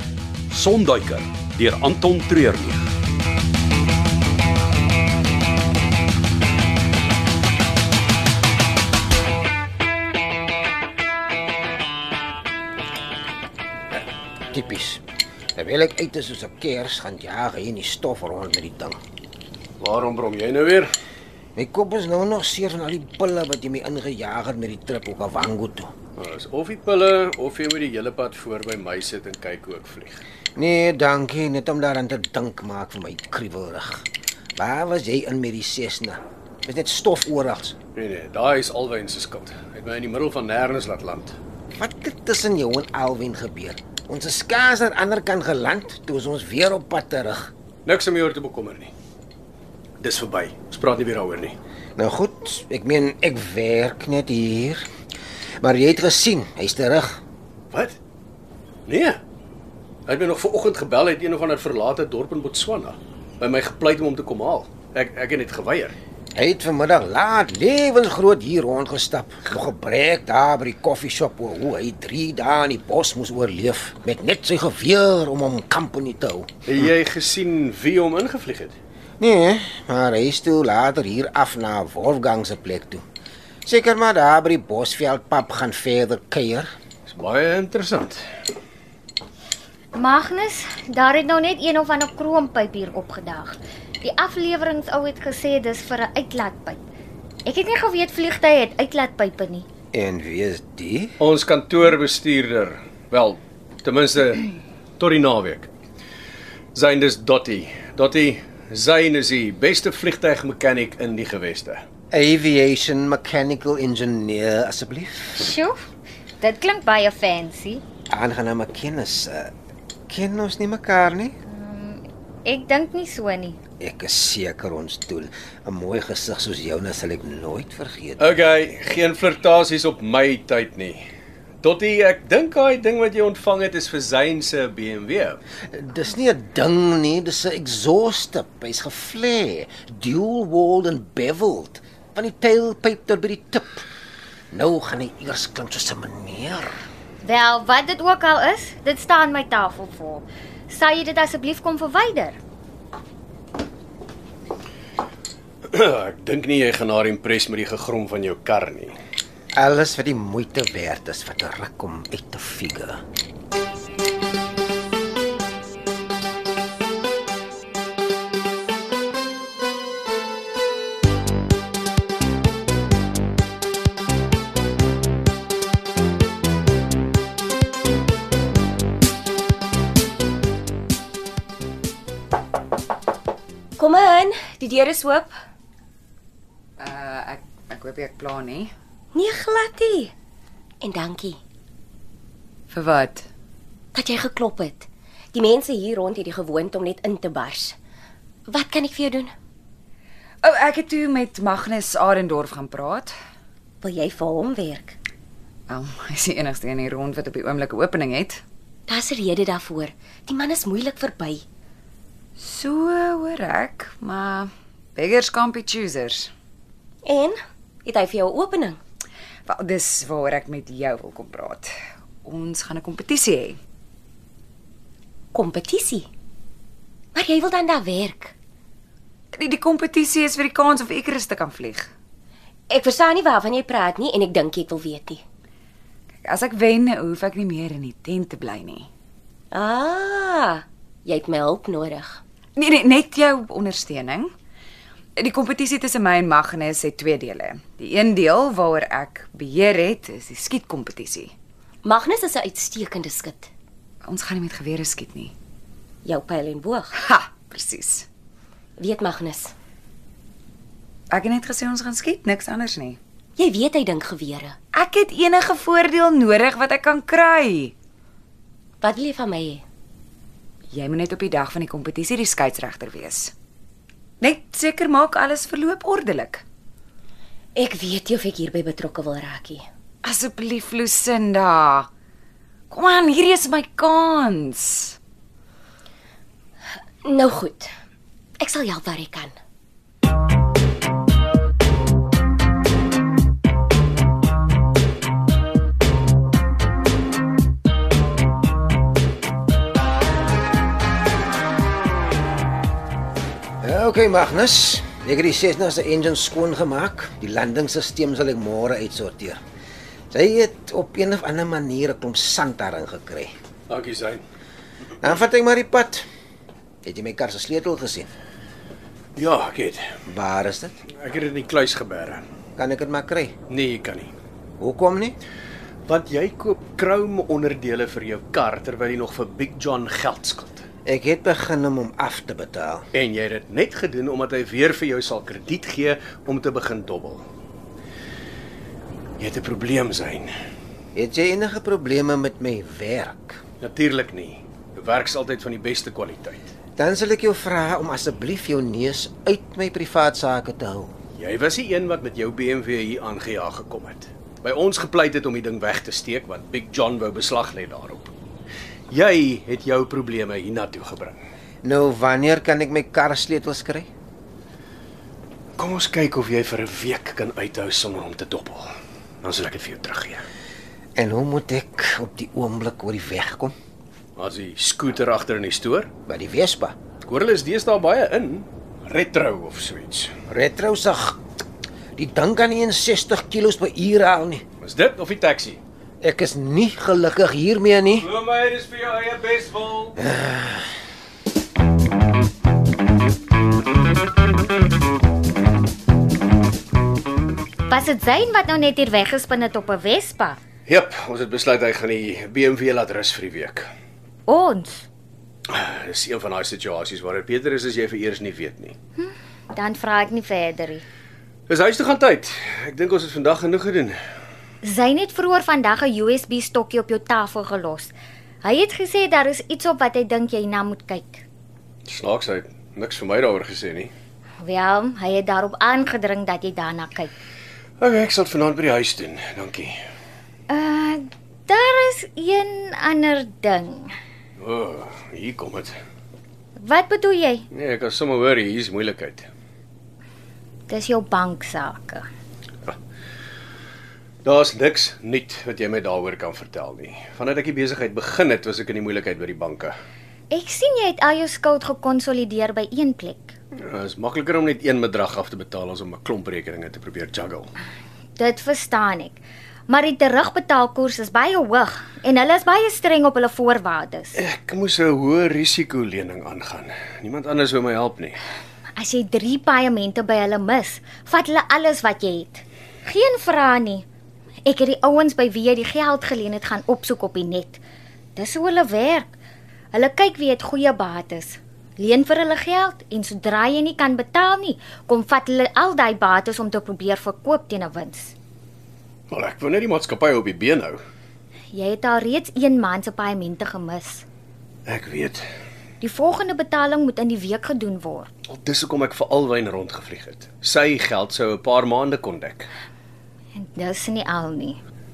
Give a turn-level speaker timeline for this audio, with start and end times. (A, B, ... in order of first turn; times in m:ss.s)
0:00.5-0:02.8 A
0:14.5-0:15.0 B
0:15.6-0:19.0 B
0:19.8-0:20.9 C
0:21.6-0:25.9 B
0:26.2-0:30.2 C
0:30.6-0:34.0 B
0:34.6-0:37.8 B
0:37.9-0:41.4 C
0:41.7-0:47.5 B
0:47.8-0:48.9 C
0:50.0-0:51.6 C
0:52.0-0:54.8 B
0:55.6-0:57.2 B
0:58.9-0:59.2 C
1:00.1-1:05.9 C
1:06.3-1:16.5 B
1:16.6-1:18.8 C
1:19.2-1:23.0 B
1:23.6-1:26.7 B
1:27.1-1:28.2 C
1:29.9-1:36.8 D
1:37.4-1:39.7 D
1:39.9-1:41.2 B
1:41.2-1:45.7 C
1:46.7-1:51.8 C
1:52.1-1:55.5 B
1:55.4-1:55.8 D
1:56.4-1:57.8 D
1:58.1-1:59.5 B
2:00.1-2:01.4 B
2:01.5-2:03.6 D
2:03.8-2:08.2 B
2:08.2-2:11.0 C
2:11.6-2:15.4 C
2:15.7-2:23.8 B
2:24.5-2:26.7 B
2:27.2-2:32.4 D
2:35.7-2:38.9 C
2:39.6-2:43.0 B
3:03.8-3:05.3 E
3:06.8-3:08.7 F
3:09.1-3:10.1 E
3:10.8-3:11.4 E
3:12.7-3:13.3 F
3:13.9-3:17.8 E
3:18.5-3:19.3 E
3:20.4-3:23.1 F
3:23.8-3:25.0 E
3:25.7-3:28.4 F
3:28.9-3:31.4 E
3:32.4-3:36.3 F
3:37.0-3:38.8 E
3:39.5-3:41.7 F
3:42.2-3:43.6 F
3:45.3-3:46.1 E
3:47.1-3:48.3 E
3:49.3-3:51.9 F
3:52.7-3:55.2 E
3:56.2-3:58.9 F
3:59.5-4:02.2 E
4:02.6-4:04.3 F
4:05.2-4:11.3 F
4:11.8-4:13.5 E
4:14.1-4:15.3 F
4:16.0-4:16.9 E
4:17.0-4:18.1 F
4:18.8-4:19.5 E
4:21.1-4:23.0 F
4:23.4-4:24.6 E
4:24.7-4:27.7 F
4:28.8-4:29.6 E
4:30.7-4:33.3 F
4:34.2-4:36.4 F
4:37.5-4:39.7 E
4:40.0-4:41.9 F
4:42.7-4:45.0 F
4:47.0-4:47.7 E
4:48.4-4:49.4 E
5:03.6-5:09.4 B
5:10.1-5:13.3 B
5:13.7-5:14.2 C
5:15.0-5:16.0 B
5:16.8-5:18.1 B
5:19.2-5:19.8 C
5:20.1-5:20.8 B
5:21.0-5:22.2 C
5:22.6-5:23.3 B
5:23.5-5:24.1 C
5:24.6-5:25.2 B
5:25.9-5:30.6 C
5:30.8-5:32.8 B
5:32.9-5:37.2 C
5:39.2-5:40.3 C
5:40.9-5:43.4 B
5:43.6-5:46.5 C
5:46.8-5:50.9 B
5:51.2-5:58.1 C
5:58.9-6:01.2 C
6:01.6-6:03.9 B
6:05.6-6:08.7 C
6:09.2-6:10.2 C
6:11.0-6:13.5 B
6:14.2-6:15.9 C
6:16.1-6:16.8 B
6:17.0-6:20.1 C
6:20.3-6:21.2 B
6:22.0-6:24.4 B
6:24.6-6:25.6 C
6:26.0-6:28.1 B
6:28.0-6:30.0 C
6:30.0-6:30.6 B
6:37.7-6:40.4 D
6:40.7-6:43.7 C
6:44.3-6:44.9 D
6:45.5-6:48.8 C
6:49.0-6:50.8 D
6:51.5-6:54.0 C
6:54.6-7:01.2 D
7:01.9-7:03.9 C
7:04.4-7:07.1 D
7:07.8-7:09.7 C
7:10.5-7:13.9 D
7:14.4-7:15.7 C
7:16.6-7:17.4 D
7:17.5-7:19.3 C
7:20.7-7:22.0 D
7:24.2-7:29.7 C
7:30.3-7:33.4 D
7:33.6-7:37.5 C
7:38.2-7:44.1 D
7:44.2-7:48.2 C
7:48.8-7:53.8 D
7:54.4-7:57.6 D
7:58.2-7:59.1 D
7:59.7-8:08.1 D
8:09.1-8:10.8 C
8:11.5-8:14.0 D
8:14.7-8:15.2 C
8:15.8-8:18.1 D
8:18.3-8:22.5 C
8:23.4-8:24.6 D